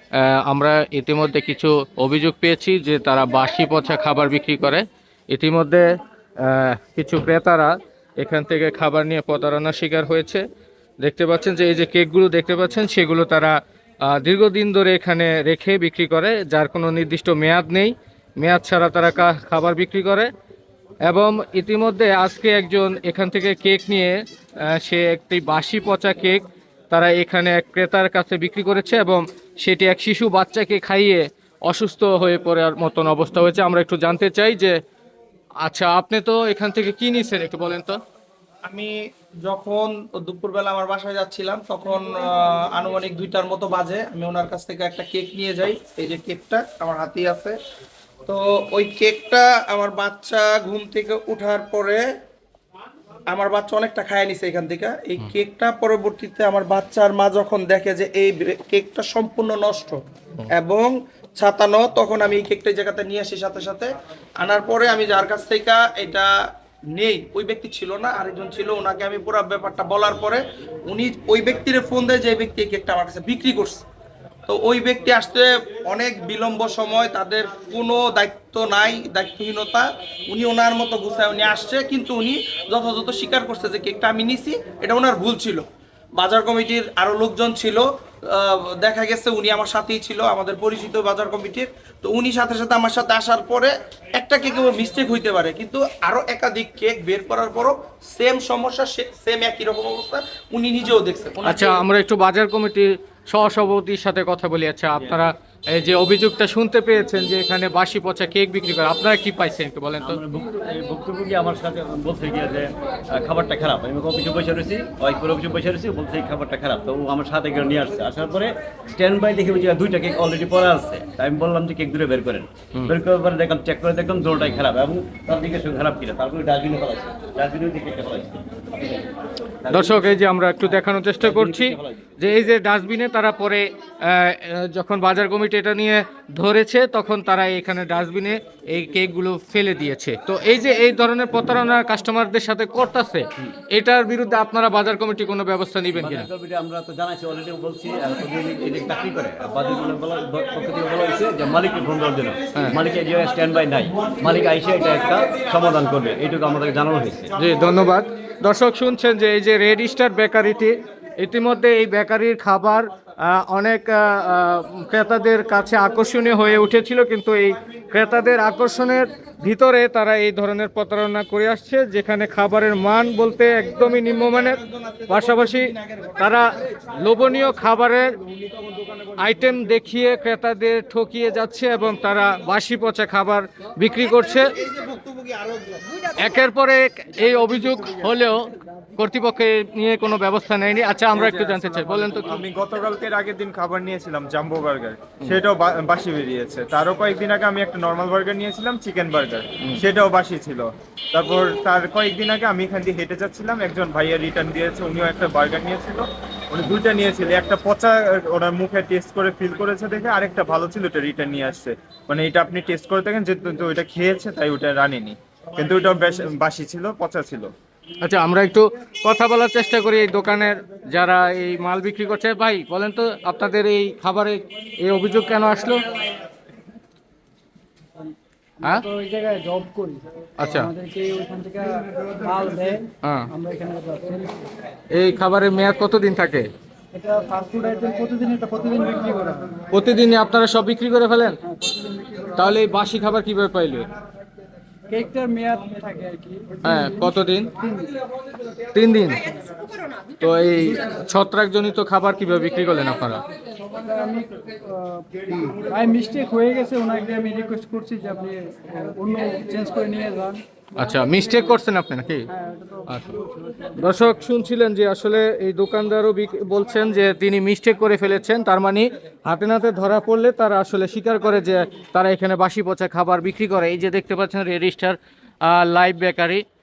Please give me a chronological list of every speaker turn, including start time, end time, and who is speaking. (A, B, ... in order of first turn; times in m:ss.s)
0:00.2-0:05.9 A
0:06.4-0:10.4 A
0:11.0-0:20.3 A
0:21.0-0:34.8 A
0:35.6-0:38.0 A
0:38.6-0:47.6 B
0:48.2-0:52.0 B
0:53.3-1:00.0 B
1:00.5-1:03.9 B
1:04.4-1:06.3 B
1:06.9-1:13.8 B
1:14.5-1:25.6 B
1:26.2-1:41.8 B
1:41.4-1:50.2 A
1:50.0-2:09.1 C
2:09.6-2:10.2 C
2:09.7-2:26.3 A
2:11.2-2:12.3 C
2:25.9-2:37.3 C
2:37.4-2:58.2 A
2:53.9-2:56.3 B
2:59.2-3:04.5 A
3:04.5-3:06.1 B
3:06.2-3:12.4 A
3:11.2-3:37.5 D
3:38.0-3:45.8 A
3:48.6-3:54.5 E
3:50.4-3:50.7 A
3:53.0-3:53.3 A
3:54.9-3:56.5 A
3:56.9-3:59.6 E
3:59.7-4:01.4 A
4:01.4-4:02.6 E
4:02.4-4:03.9 A
4:04.9-4:08.0 E
4:06.6-4:07.5 A
4:08.7-4:09.4 A
4:10.2-4:13.2 A
4:13.6-4:20.4 E
4:20.8-4:22.3 A
4:22.3-4:23.9 E
4:22.9-4:23.2 A
4:23.8-4:36.4 A